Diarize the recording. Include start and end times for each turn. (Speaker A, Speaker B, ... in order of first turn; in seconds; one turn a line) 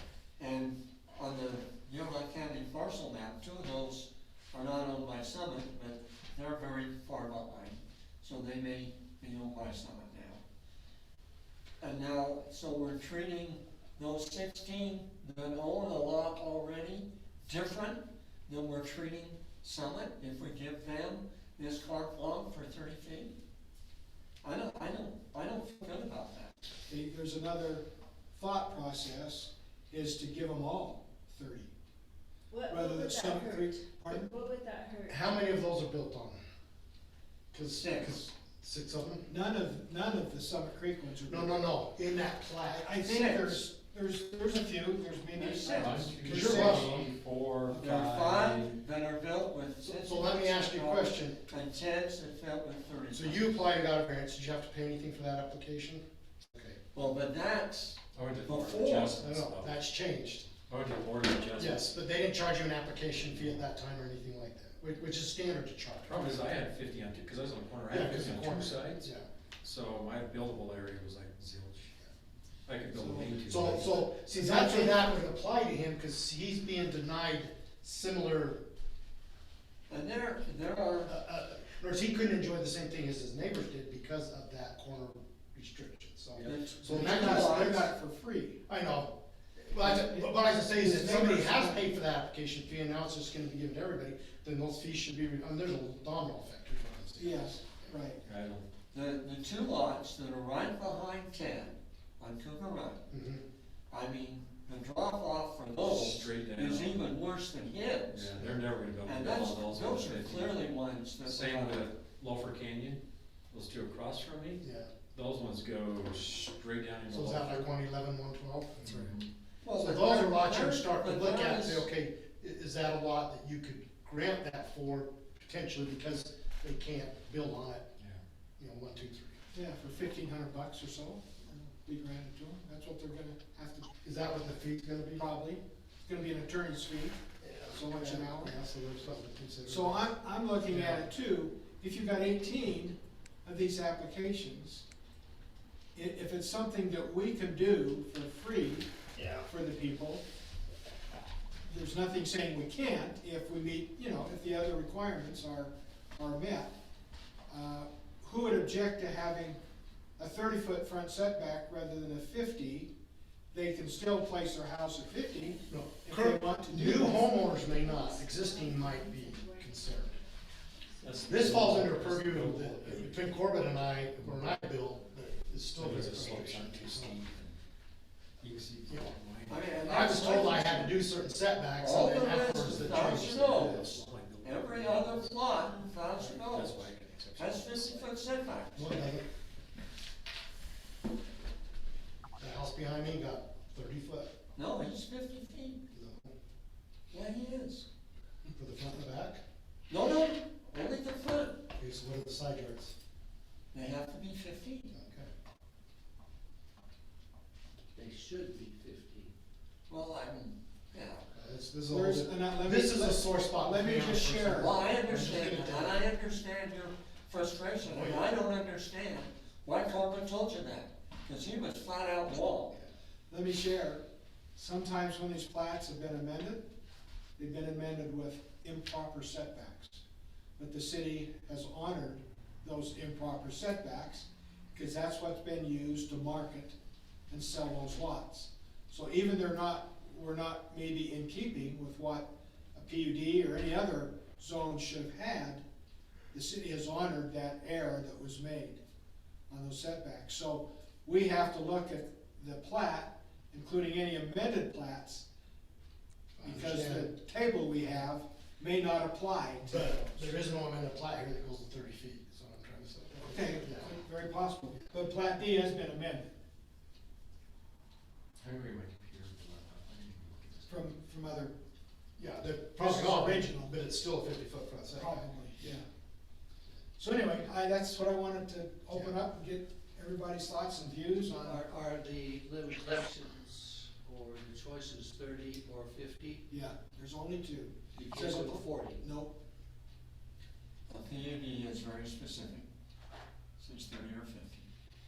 Speaker A: 0.4-10.4
Speaker A: 11.8-23.4
Speaker A: 24.4-26.6
Speaker B: 26.9-31.7
Speaker C: 32.5-35.3
Speaker B: 32.7-34.3
Speaker D: 35.1-36.4
Speaker D: 37.5-39.3
Speaker A: 37.7-38.2
Speaker B: 39.3-41.8
Speaker D: 41.3-42.9
Speaker B: 42.8-46.9
Speaker A: 43.0-43.6
Speaker A: 45.3-46.6
Speaker E: 45.7-48.8
Speaker D: 46.2-47.1
Speaker A: 47.7-53.5
Speaker D: 49.9-51.4
Speaker D: 53.1-56.8
Speaker A: 56.9-59.2
Speaker E: 58.1-59.8
Speaker D: 59.1-60.5
Speaker E: 60.7-61.9
Speaker D: 61.6-66.6
Speaker E: 66.1-69.1
Speaker D: 67.9-69.3
Speaker E: 69.6-72.0
Speaker E: 72.7-74.0
Speaker B: 72.9-73.4
Speaker D: 73.4-78.6
Speaker B: 74.2-75.1
Speaker A: 79.9-81.1
Speaker D: 81.1-87.9
Speaker A: 86.4-87.9
Speaker B: 86.9-88.6
Speaker D: 88.7-97.9
Speaker B: 89.8-92.0
Speaker B: 97.2-98.2
Speaker E: 98.2-98.7
Speaker A: 98.9-103.0
Speaker D: 103.1-103.4
Speaker A: 103.9-108.3
Speaker E: 105.8-107.1
Speaker E: 108.1-110.7
Speaker D: 108.4-108.6
Speaker A: 109.0-111.9
Speaker E: 111.2-117.8
Speaker D: 114.6-114.9
Speaker D: 117.1-119.2
Speaker E: 118.8-119.3
Speaker A: 119.6-121.9
Speaker D: 119.8-127.9
Speaker D: 128.6-129.4
Speaker B: 129.5-133.9
Speaker D: 134.0-135.3
Speaker B: 135.2-137.2
Speaker D: 137.4-140.1
Speaker B: 137.7-138.5
Speaker B: 139.7-144.8
Speaker D: 140.7-141.1
Speaker B: 145.9-150.2
Speaker D: 149.2-149.4
Speaker B: 151.7-156.7
Speaker B: 157.5-159.6
Speaker B: 160.2-162.9
Speaker B: 163.5-167.3
Speaker D: 165.7-170.2
Speaker C: 167.2-171.6
Speaker E: 171.0-173.4
Speaker D: 171.2-177.2
Speaker E: 174.1-174.6
Speaker E: 175.8-177.6
Speaker E: 178.4-180.5
Speaker D: 178.9-179.2
Speaker A: 179.5-180.9
Speaker D: 179.8-183.9
Speaker A: 181.8-189.1
Speaker E: 182.4-185.4
Speaker C: 185.7-186.0
Speaker E: 186.1-188.1
Speaker D: 188.8-189.3
Speaker D: 192.4-194.3
Speaker A: 194.6-195.8
Speaker D: 195.9-196.3
Speaker A: 197.1-197.9
Speaker D: 198.4-199.4
Speaker A: 199.9-201.6
Speaker D: 201.8-202.9
Speaker A: 203.7-204.9
Speaker D: 204.9-205.3
Speaker F: 207.9-209.3
Speaker A: 209.9-211.3
Speaker D: 211.3-216.0
Speaker B: 211.9-214.7
Speaker A: 214.6-222.8
Speaker D: 217.8-218.3
Speaker B: 223.3-224.0
Speaker B: 224.6-226.7
Speaker B: 227.4-230.0
Speaker B: 230.6-236.8
Speaker B: 237.3-245.6
Speaker B: 246.3-248.8
Speaker B: 249.5-255.3
Speaker D: 256.4-257.1
Speaker B: 256.4-260.3
Speaker D: 259.6-264.0
Speaker B: 263.1-266.3
Speaker E: 268.4-270.9
Speaker B: 270.7-271.5
Speaker D: 272.2-275.3
Speaker B: 272.8-273.7
Speaker B: 274.9-275.9
Speaker B: 277.0-281.6
Speaker F: 281.3-286.5
Speaker B: 286.5-289.4
Speaker F: 287.9-289.1
Speaker A: 290.9-292.7
Speaker A: 293.6-294.7